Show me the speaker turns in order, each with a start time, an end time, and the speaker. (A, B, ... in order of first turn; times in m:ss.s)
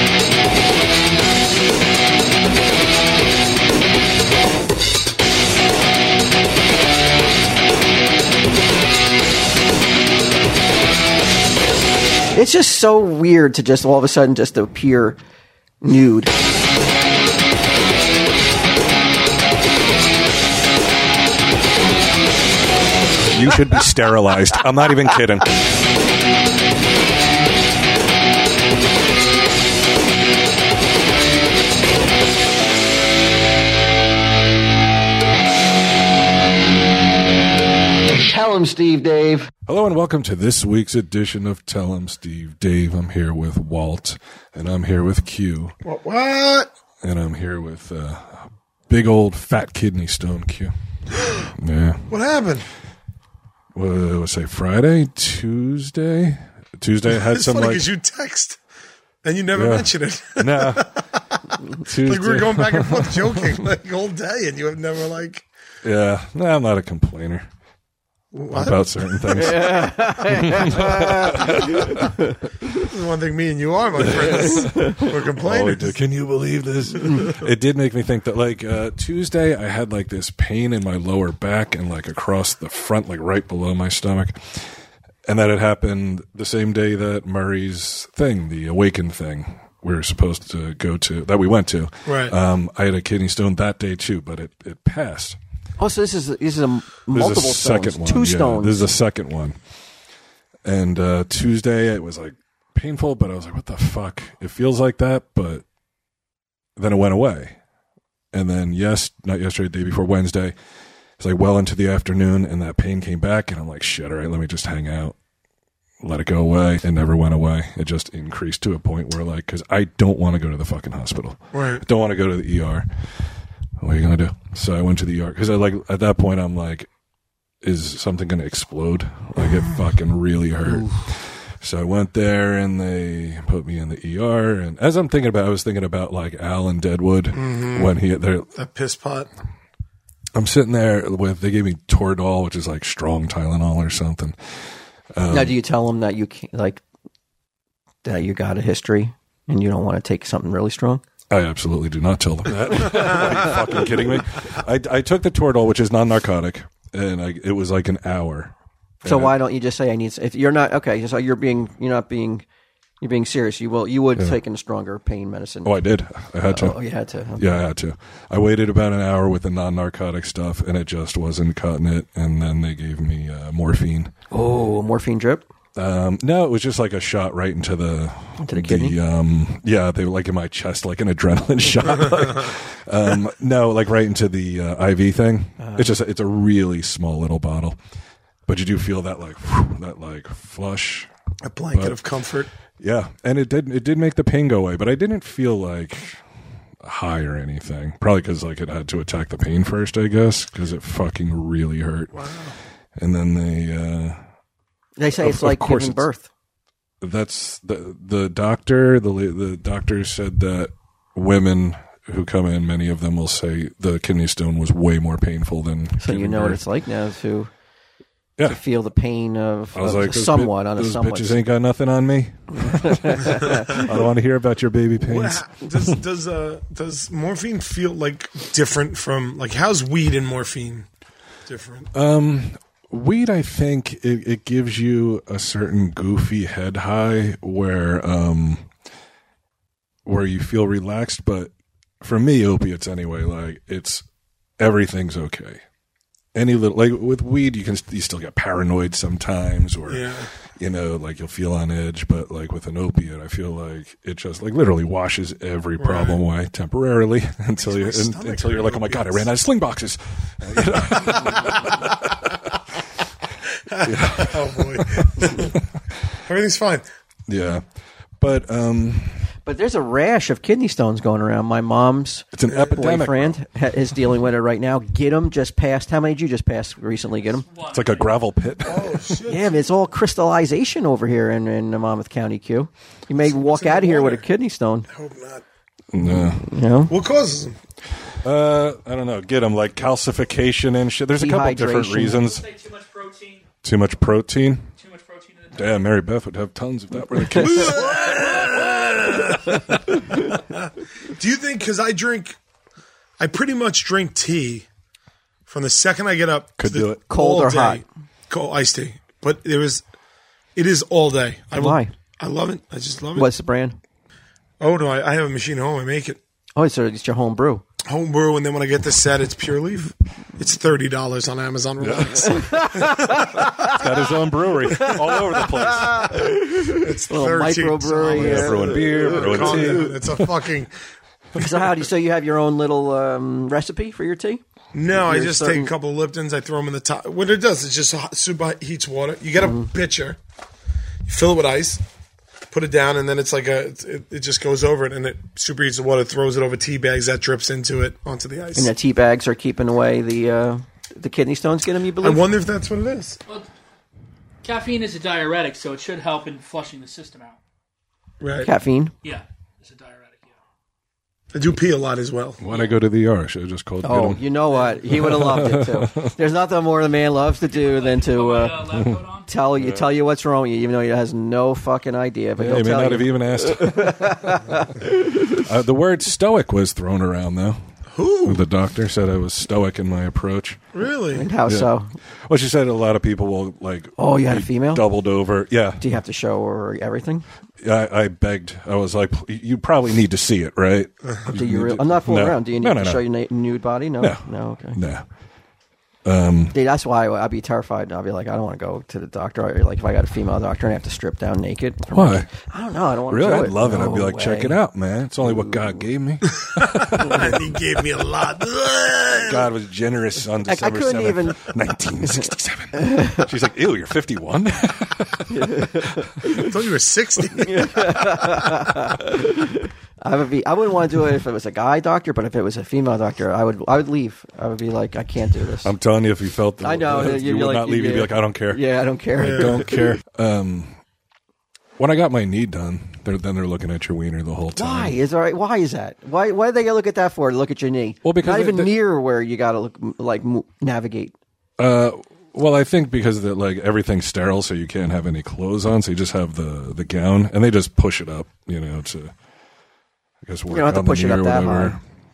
0:12.3-0:15.2 A
0:15.8-0:16.3 A
0:23.2-0:25.6 B
0:38.1-0:39.5 A
0:39.6-0:45.8 B
0:45.8-0:46.7 C
0:47.0-0:50.7 B
0:51.4-0:52.1 B
0:52.1-0:52.7 C
0:53.7-0:57.9 B
0:57.1-0:58.6 C
0:59.2-1:05.4 C
0:59.5-1:01.0 B
1:01.8-1:03.6 B
1:05.8-1:07.5 B
1:08.3-1:09.5 C
1:08.5-1:12.1 B
1:09.3-1:12.4 A
1:12.7-1:16.0 C
1:14.0-1:24.7 B
1:25.3-1:35.4 B
1:32.0-1:32.3 C
1:35.8-1:38.9 A
1:37.1-1:39.6 B
1:40.6-1:45.6 B
1:46.8-1:47.6 B
1:48.3-1:50.5 B
1:51.2-1:55.2 B
1:56.0-2:03.3 B
2:01.5-2:01.8 C
2:03.8-2:06.9 B
2:07.6-2:18.5 B
2:17.3-2:17.9 C
2:18.5-2:19.3 C
2:20.3-2:25.6 B
2:25.3-2:26.8 A
2:28.0-2:31.0 A
2:31.3-2:39.4 B
2:39.0-2:42.4 A
2:43.0-2:45.8 A
2:45.6-2:46.8 B
2:46.4-2:47.6 A
2:47.4-2:54.1 B
2:54.3-2:55.4 A
2:55.7-3:07.8 B
2:58.4-2:59.0 A
3:05.6-3:05.9 A
3:08.5-3:11.1 B
3:11.4-3:12.5 C
3:11.7-3:12.0 B
3:12.8-3:16.2 B
3:16.8-3:22.2 B
3:22.1-3:22.6 C
3:23.0-3:24.2 B
3:25.0-3:26.3 A
3:25.2-3:26.0 B
3:27.0-3:36.6 B
3:36.0-3:37.5 A
3:38.4-3:41.4 A
3:39.7-3:46.0 B
3:42.6-3:43.9 A
3:45.0-3:50.8 C
3:51.5-3:51.9 C
3:51.9-3:58.7 B
4:00.0-4:04.0 B
4:04.6-4:05.6 B
4:06.3-4:22.1 B
4:09.9-4:10.3 C
4:15.8-4:16.2 C
4:17.6-4:19.3 C
4:20.8-4:22.3 C
4:23.6-4:25.6 C
4:23.8-4:25.5 B
4:26.2-4:26.8 C
4:27.3-4:27.6 B
4:28.2-4:29.3 B
4:29.4-4:37.4 A
4:32.3-4:33.4 B
4:37.2-4:38.2 D
4:37.7-4:39.0 B
4:38.6-4:39.6 C
4:39.3-4:44.9 A
4:43.2-4:44.2 C
4:44.9-4:45.4 C
4:45.9-4:46.5 B
4:46.1-4:46.9 A
4:46.9-4:47.6 C
4:48.2-4:52.4 B
4:51.2-4:52.2 A
4:52.1-4:53.4 D
4:53.6-4:54.7 B
4:54.8-4:55.9 D
4:55.5-5:00.0 B
4:57.3-4:59.3 C
4:57.9-4:58.5 D
5:00.3-5:02.4 C
5:03.2-5:04.7 C
5:05.5-5:09.8 C
5:06.6-5:07.0 B
5:07.1-5:07.8 A
5:10.6-5:13.3 C
5:11.5-5:11.9 A
5:13.2-5:13.8 A
5:14.6-5:16.2 C
5:16.6-5:17.6 A
5:17.8-5:23.5 C
5:21.8-5:22.9 B
5:22.2-5:23.9 A
5:23.6-5:26.1 B
5:24.7-5:29.8 A
5:26.2-5:30.7 C
5:28.1-5:30.3 B
5:31.3-5:35.7 A
5:34.7-5:40.2 C
5:39.4-5:39.7 A
5:41.0-5:41.8 C
5:42.5-5:48.7 C
5:48.5-5:52.2 A
5:52.0-5:53.2 C
5:54.4-5:57.4 D
5:58.2-5:58.5 C
5:58.4-5:58.9 A
5:59.0-6:00.3 D
6:01.3-6:02.4 C
6:02.4-6:04.2 B
6:02.5-6:02.7 D
6:03.8-6:08.6 A
6:04.9-6:06.1 B
6:07.5-6:09.3 D
6:08.7-6:09.0 B
6:09.3-6:15.4 A
6:09.5-6:09.9 B
6:12.4-6:17.6 B
6:17.9-6:18.4 C
6:18.2-6:20.6 B
6:20.7-6:21.3 C
6:21.1-6:21.9 A
6:21.4-6:21.7 B
6:22.2-6:25.8 B
6:24.0-6:24.8 A
6:25.8-6:27.2 A
6:27.6-6:33.0 B
6:31.3-6:34.8 A
6:34.0-6:35.0 B
6:36.0-6:36.6 B
6:36.5-6:44.6 A
6:41.9-6:42.3 B
6:43.1-6:47.4 B
6:46.5-6:49.4 C
6:49.1-6:56.2 B
6:50.4-6:51.5 A
6:52.7-6:53.3 A
6:55.3-6:56.4 A
6:56.2-6:58.6 C
6:57.4-7:05.7 A
7:05.6-7:08.6 B
7:06.6-7:09.8 A
7:09.2-7:10.8 B
7:09.2-7:09.6 C
7:11.8-7:15.0 B
7:14.5-7:21.1 A
7:18.0-7:18.7 B
7:21.6-7:29.1 B
7:30.2-7:31.8 B
7:30.5-7:31.8 A